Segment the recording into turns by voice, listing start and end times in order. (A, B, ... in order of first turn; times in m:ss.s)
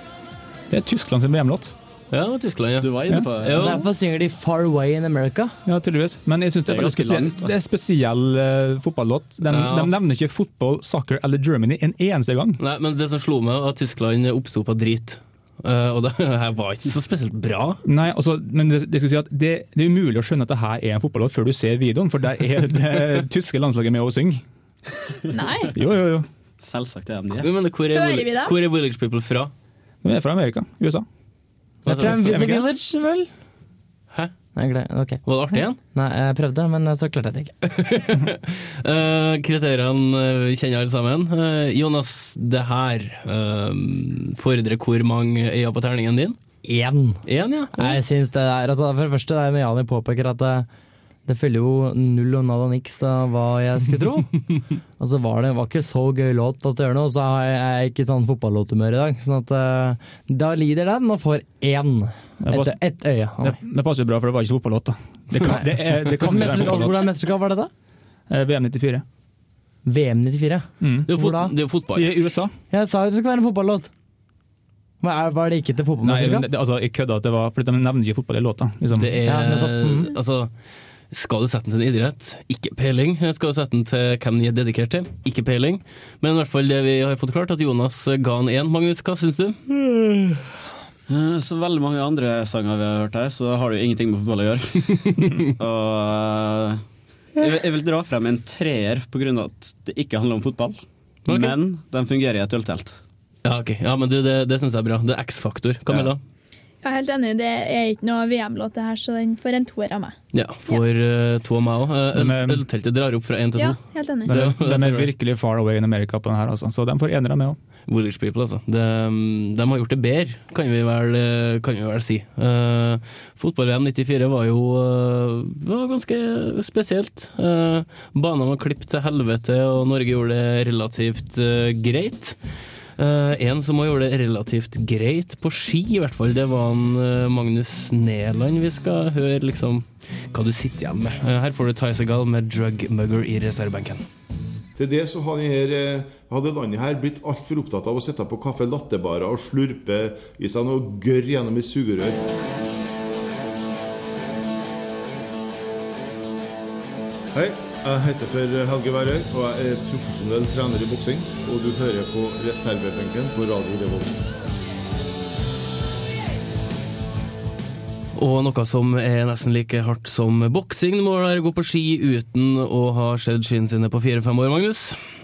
0:00.7-0:01.7 A
0:02.1-0:03.9 B
0:02.8-0:03.2 C
0:03.1-0:03.3 A
0:03.5-0:05.5 D
0:05.6-0:12.6 A
0:06.6-0:07.5 C
0:09.5-0:09.9 B
0:12.6-0:17.8 B
0:17.8-0:24.4 A
0:25.3-0:25.7 E
0:25.7-0:26.2 A
0:26.6-0:27.5 C
0:27.4-0:29.5 B
0:27.9-0:28.5 E
0:30.0-0:31.0 A
0:31.8-0:32.4 B
0:31.8-0:32.7 A
0:31.9-0:33.3 D
0:34.5-0:35.2 D
0:35.2-0:35.8 B
0:35.9-0:37.5 D
0:37.6-0:46.4 B
0:46.6-0:47.2 D
0:47.2-0:48.0 B
0:47.7-0:50.7 D
0:51.2-0:54.3 D
0:55.0-1:03.6 D
1:02.4-1:02.8 A
1:03.4-1:07.1 A
1:05.3-1:07.7 D
1:08.3-1:09.0 A
1:09.8-1:11.5 D
1:10.8-1:11.1 A
1:11.1-1:12.1 B
1:11.9-1:12.5 A
1:12.7-1:13.9 D
1:15.0-1:16.5 D
1:16.0-1:19.2 A
1:19.0-1:20.5 B
1:19.2-1:20.1 D
1:21.1-1:29.8 B
1:31.1-1:36.8 C
1:35.0-1:35.5 B
1:37.4-1:43.0 C
1:41.3-1:41.5 B
1:43.4-1:46.2 B
1:45.9-1:46.1 C
1:46.8-1:50.1 E
1:50.3-1:55.1 B
1:52.1-1:52.6 A
1:53.6-1:54.3 E
1:54.3-1:57.6 A
1:57.9-2:12.4 B
2:13.0-2:24.0 B
2:24.8-2:32.2 F
2:37.3-2:44.2 F
2:48.1-2:55.0 B